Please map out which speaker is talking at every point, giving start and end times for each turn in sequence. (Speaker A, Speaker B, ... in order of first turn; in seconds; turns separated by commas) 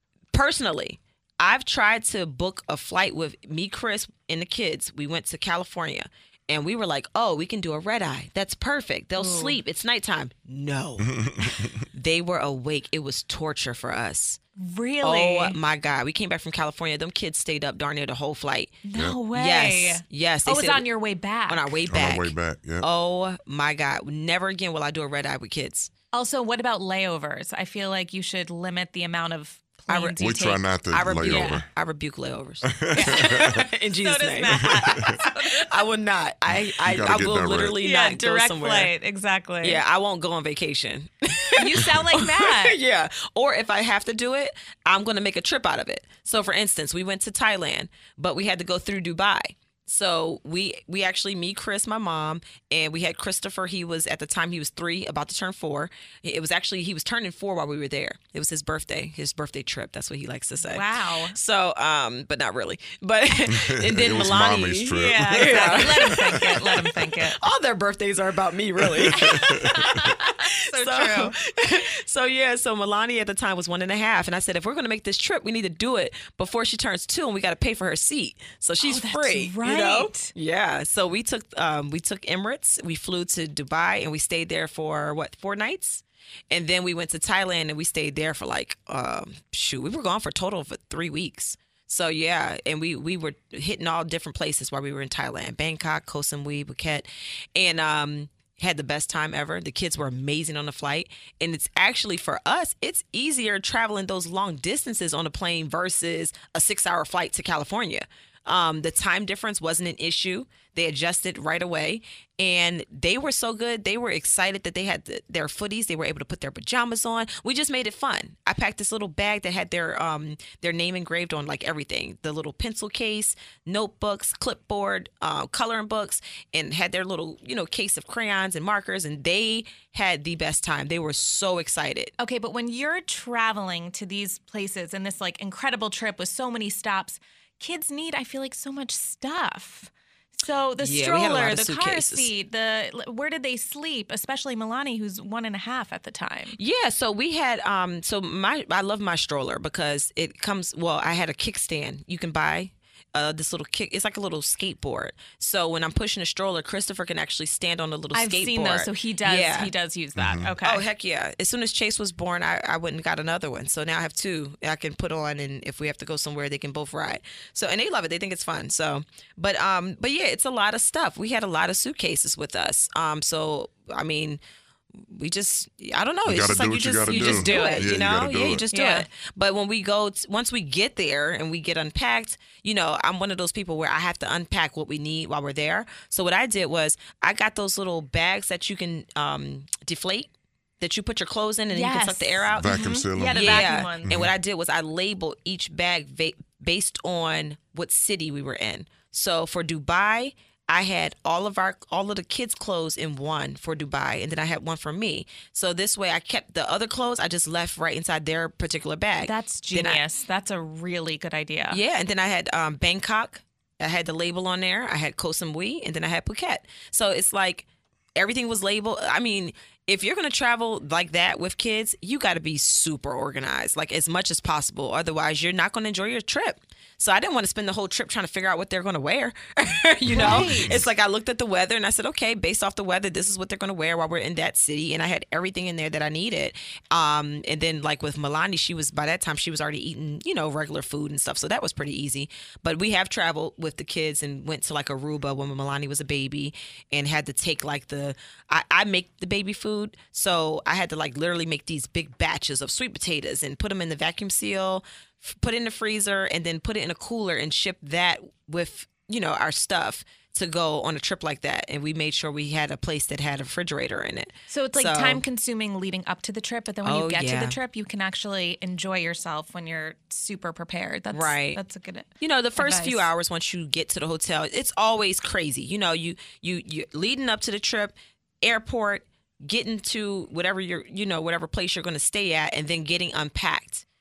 Speaker A: 0.3-11.2, Speaker B: 9.2-9.6, Speaker C: 11.0-11.9, Speaker A: 11.9-14.4, Speaker B: 14.6-15.6, Speaker A: 15.0-20.8, Speaker B: 18.8-21.7, Speaker A: 21.5-25.9, Speaker C: 21.9-22.9, Speaker B: 26.1-30.6, Speaker A: 29.9-30.2, Speaker C: 30.2-31.7, Speaker A: 30.9-38.9, Speaker B: 31.2-31.6, Speaker C: 32.6-33.6, Speaker B: 34.0-35.9, Speaker C: 34.8-35.2, Speaker C: 36.5-37.8, Speaker B: 37.8-39.8, Speaker A: 39.6-66.6, Speaker B: 41.6-42.8, Speaker B: 60.6-61.3, Speaker C: 63.5-67.0, Speaker B: 64.9-67.4, Speaker A: 67.3-132.1, Speaker C: 68.8-70.0, Speaker B: 69.2-71.3, Speaker B: 78.8-80.3, Speaker B: 132.2-146.6, Speaker A: 140.8-142.3, Speaker A: 146.6-159.7, Speaker B: 158.1-160.8, Speaker C: 160.1-160.5, Speaker A: 160.6-174.4, Speaker A: 174.9-190.3, Speaker C: 176.2-178.6, Speaker B: 177.1-178.0, Speaker B: 178.7-179.1, Speaker A: 190.8-192.8, Speaker B: 191.7-194.1, Speaker C: 192.5-194.3, Speaker A: 193.3-210.0, Speaker B: 209.2-211.8, Speaker A: 211.7-265.2, Speaker C: 230.0-230.8, Speaker B: 230.1-230.8, Speaker B: 264.5-273.1, Speaker A: 266.8-267.6, Speaker A: 271.1-271.6, Speaker A: 272.2-283.8